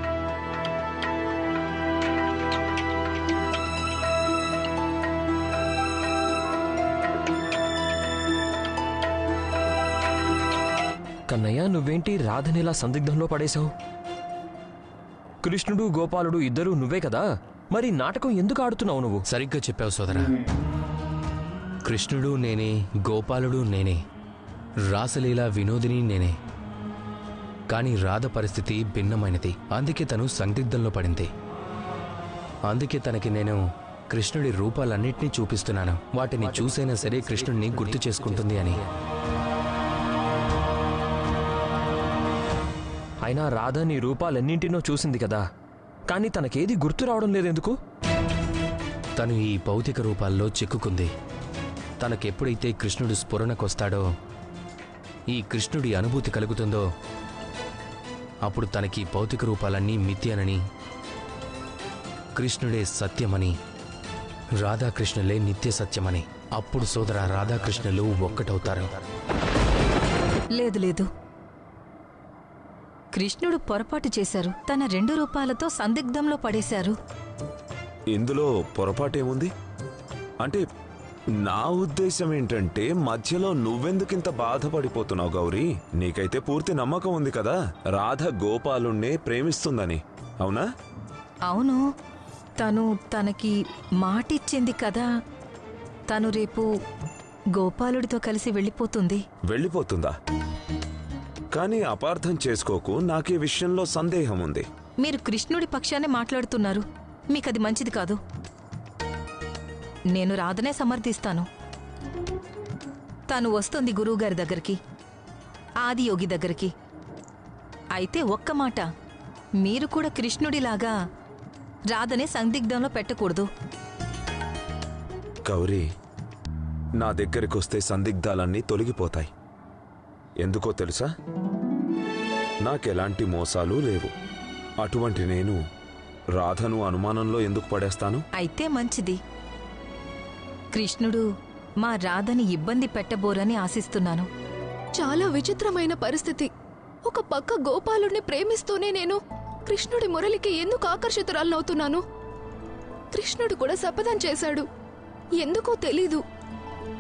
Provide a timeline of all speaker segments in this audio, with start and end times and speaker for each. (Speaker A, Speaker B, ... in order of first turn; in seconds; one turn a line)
Speaker A: 11.3-13.7
Speaker A: 15.4-19.2
Speaker B: 19.3-20.3
Speaker B: 21.9-24.0
Speaker B: 24.9-26.4
Speaker B: 27.7-31.3
Speaker B: 32.7-38.8
Speaker A: 43.2-45.4
Speaker A: 46.1-47.8
Speaker B: 49.2-51.1
Speaker B: 52.0-54.0
Speaker B: 55.3-56.8
Speaker B: 58.5-60.6
Speaker B: 62.4-63.5
Speaker B: 64.6-68.9
Speaker C: 70.5-71.1
Speaker C: 73.1-77.0
Speaker D: 78.1-79.5
Speaker D: 81.5-90.6
Speaker C: 91.5-91.8
Speaker C: 92.6-95.1
Speaker C: 96.1-96.7
Speaker C: 97.5-99.2
Speaker D: 99.5-100.1
Speaker D: 101.5-104.6
Speaker C: 105.0-108.2
Speaker C: 110.1-111.5
Speaker C: 113.3-114.8
Speaker C: 115.8-116.7
Speaker C: 118.0-118.9
Speaker C: 119.6-120.9
Speaker C: 121.9-123.5
Speaker D: 125.5-125.8
Speaker D: 127.0-129.3
Speaker D: 130.4-131.1
Speaker D: 132.7-134.1
Speaker D: 134.8-135.6
Speaker D: 136.4-138.2
Speaker C: 138.4-139.2
Speaker C: 140.7-141.2
Speaker C: 141.8-144.3
Speaker E: 145.0-146.5
Speaker E: 147.1-152.0
Speaker E: 153.1-154.7
Speaker E: 155.4-156.2